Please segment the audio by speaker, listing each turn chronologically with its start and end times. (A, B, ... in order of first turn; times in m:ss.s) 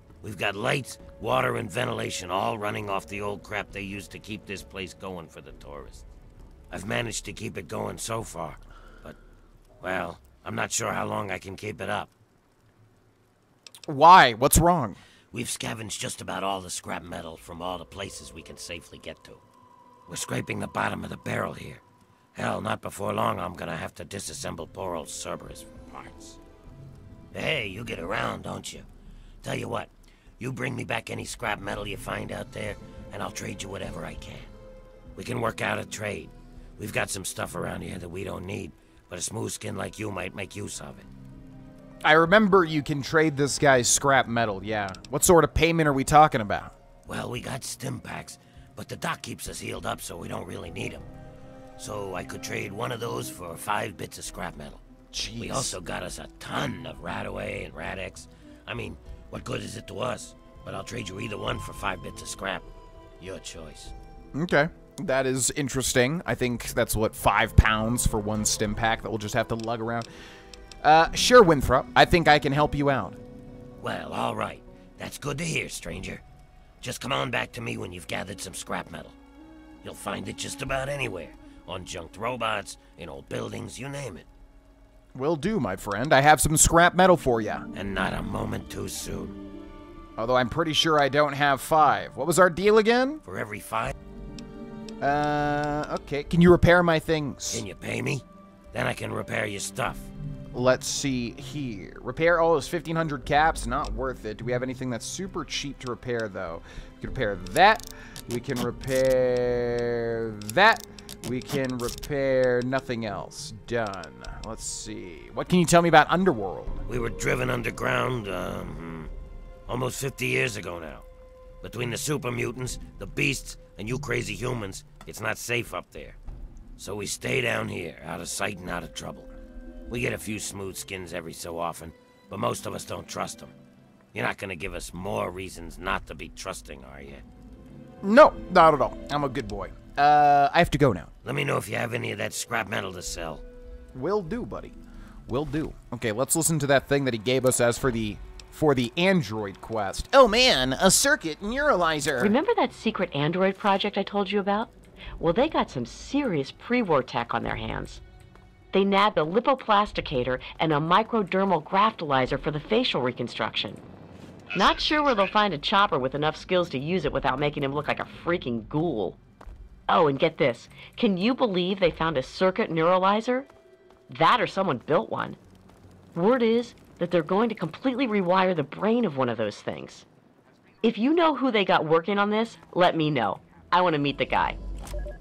0:00.2-0:06.0 A
0:06.7-0:09.2 A
0:09.8-0:12.1 A
0:13.9-0:15.0 B
0:15.3-0:19.4 A
0:20.1-0:21.8 A
0:22.3-0:26.4 A
0:27.3-0:28.9 A
0:29.4-0:34.5 A
0:35.2-0:41.1 A
0:42.0-0:46.7 B
0:47.0-0:51.1 A
0:51.8-0:54.8 A
0:55.1-0:55.8 B
0:55.4-1:02.7 A
1:03.2-1:03.9 A
1:04.3-1:10.1 B
1:10.8-1:13.2 B
1:13.8-1:16.2 A
1:16.8-1:19.2 A
1:19.8-1:24.3 A
1:25.1-1:27.6 B
1:27.7-1:29.4 A
1:30.2-1:33.2 B
1:33.2-1:33.9 A
1:35.0-1:37.6 B
1:37.5-1:40.1 A
1:40.5-1:56.8 B
1:56.9-1:59.1 A
1:59.7-2:01.0 A
2:01.6-2:06.2 A
2:06.8-2:09.3 A
2:09.9-2:13.5 A
2:14.1-2:17.2 A
2:18.0-2:21.1 B
2:21.2-2:23.4 A
2:23.9-2:24.7 B
2:25.3-2:32.3 B
2:32.2-2:38.0 C
2:38.7-2:43.8 C
2:44.5-2:49.2 C
2:49.9-2:53.5 C
2:54.1-2:55.4 C
2:56.1-3:00.0 C
3:00.8-3:04.6 C